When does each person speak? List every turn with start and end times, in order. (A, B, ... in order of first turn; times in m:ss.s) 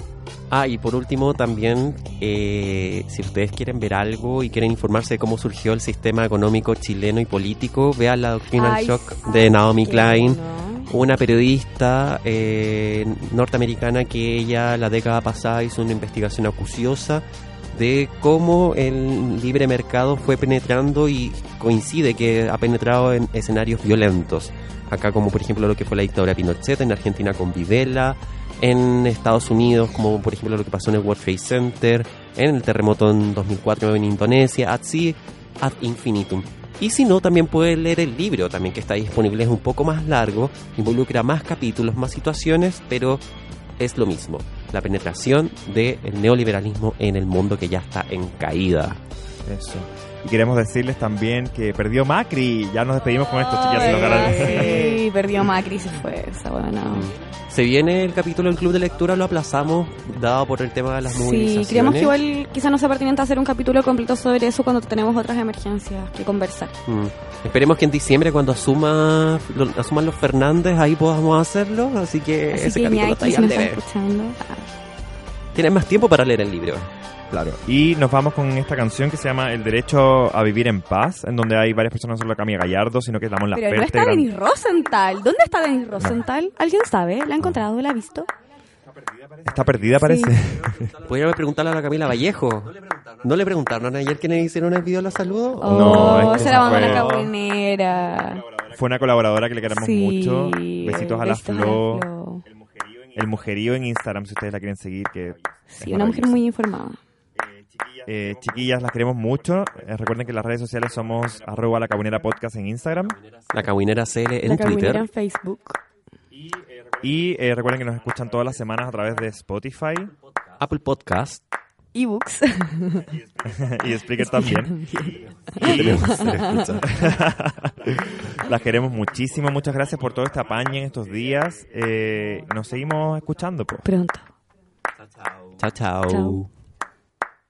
0:00.5-0:43.2 A
0:08.5-0:10.9 B
0:43.8-0:49.0 A
0:49.4-0:55.0 C
0:53.5-0:57.1 B
0:54.4-0:54.9 A
0:56.9-1:02.1 A
1:01.0-1:06.7 B
1:06.9-1:13.8 A
1:12.5-1:14.7 B
1:15.5-1:16.9 A
1:17.3-1:24.3 C
1:23.5-1:28.3 B
1:29.4-1:30.9 C
1:30.0-1:30.4 B
1:31.0-1:36.8 A
1:35.6-1:38.4 B
1:35.7-1:37.3 C
1:38.6-1:42.1 C
1:39.7-1:42.4 B
1:43.0-1:46.4 C
1:45.7-1:47.0 B
1:48.0-1:53.2 C
1:53.5-1:55.0 A
1:54.4-1:55.8 B
1:56.9-2:00.1 C
2:00.6-2:01.4 A
2:01.9-2:03.1 B
2:03.4-2:13.8 C
2:04.2-2:06.8 B
2:05.6-2:06.8 A
2:13.8-2:14.3 B
2:15.6-2:16.5 A
2:16.1-2:16.4 B